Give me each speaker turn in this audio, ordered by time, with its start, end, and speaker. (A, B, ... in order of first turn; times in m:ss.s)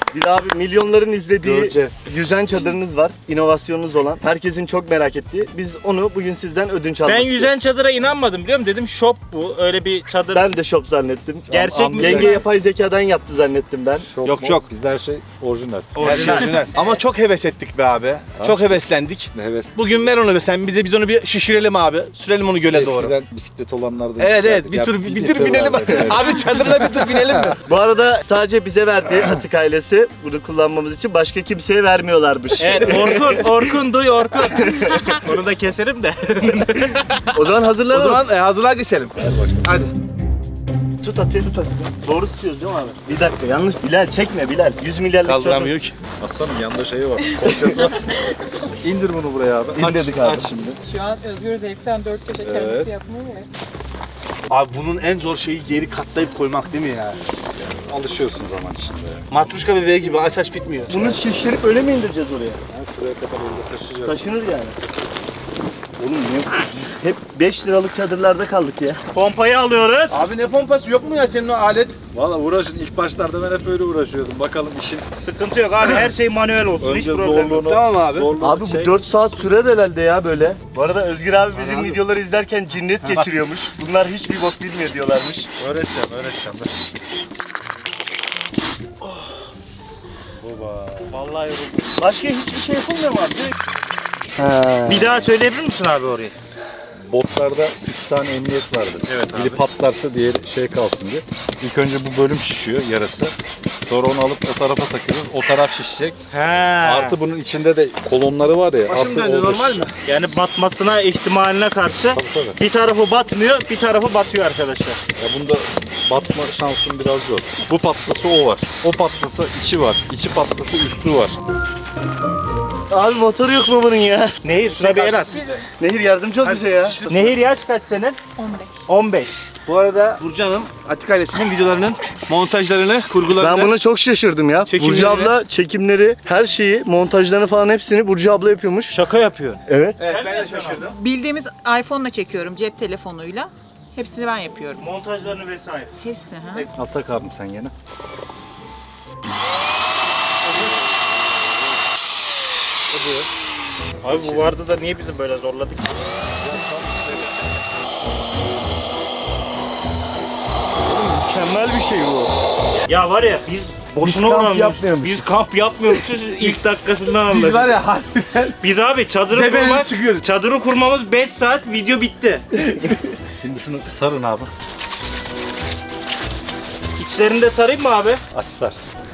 0:00.1-0:07.5 A
0:01.4-0:02.0 B
0:07.0-0:10.6 C
0:10.3-0:14.1 A
0:11.5-0:12.5 B
0:11.5-0:12.5 C
0:14.1-0:16.5 B
0:14.2-0:14.7 D
0:15.9-0:17.0 C
0:16.0-0:23.1 D
0:18.4-0:20.2 B
0:22.7-0:27.6 B
0:24.2-0:27.6 D
0:27.6-0:33.5 A
0:32.6-0:37.3 C
0:34.6-0:35.2 A
0:37.3-0:38.2 A
0:37.9-0:39.9 D
0:39.2-0:39.6 B
0:41.0-0:45.7 A
0:45.2-0:45.9 D
0:46.2-0:48.3 B
0:48.8-0:50.8 B
0:49.8-0:50.5 A
0:50.8-0:53.5 E
0:52.4-0:52.9 B
0:54.5-0:57.2 D
0:57.7-0:59.3 B
0:59.3-1:01.2 D
1:00.9-1:02.6 A
1:02.7-1:04.2 B
1:04.0-1:04.8 A
1:06.0-1:06.9 B
1:06.8-1:09.0 A
1:09.1-1:10.2 C
1:10.1-1:12.0 D
1:12.1-1:15.0 B
1:15.2-1:17.6 C
1:16.8-1:19.0 B
1:17.5-1:18.3 D
1:18.4-1:25.5 A
1:21.5-1:22.0 D
1:23.0-1:23.5 D
1:25.6-1:26.7 B
1:30.4-1:31.2 B
1:31.1-1:31.8 C
1:32.0-1:33.5 A
1:34.4-1:35.1 A
1:34.9-1:36.3 C
1:37.1-1:43.3 B
1:39.1-1:39.7 C
1:43.9-1:46.2 B
1:46.3-1:47.2 C
1:46.8-1:49.8 B
1:48.9-1:49.9 D
1:50.0-1:55.0 C
1:52.1-1:52.6 B
1:55.2-2:01.4 B
2:02.9-2:04.4 A
2:04.4-2:05.3 C
2:04.7-2:05.6 D
2:05.8-2:07.0 A
2:06.4-2:07.4 D
2:07.1-2:08.2 C
2:08.4-2:08.8 E
2:08.9-2:09.3 C
2:09.6-2:13.7 D
2:13.4-2:19.0 A
2:14.6-2:15.4 D
2:18.9-2:20.9 C
2:19.7-2:20.0 A
2:20.0-2:21.0 D
2:21.0-2:24.8 E
2:24.8-2:25.9 C
2:26.0-2:26.7 E
2:26.7-2:27.7 B
2:33.0-2:33.2 D
2:34.0-2:36.1 C
2:36.4-2:37.3 B
2:40.8-2:42.3 A
2:42.9-2:47.8 C
2:44.0-2:45.2 A
2:47.2-2:48.6 D
2:48.6-2:52.6 C
2:49.3-2:50.2 D
2:53.4-2:54.5 B
2:57.0-2:58.2 C
2:58.3-2:58.8 B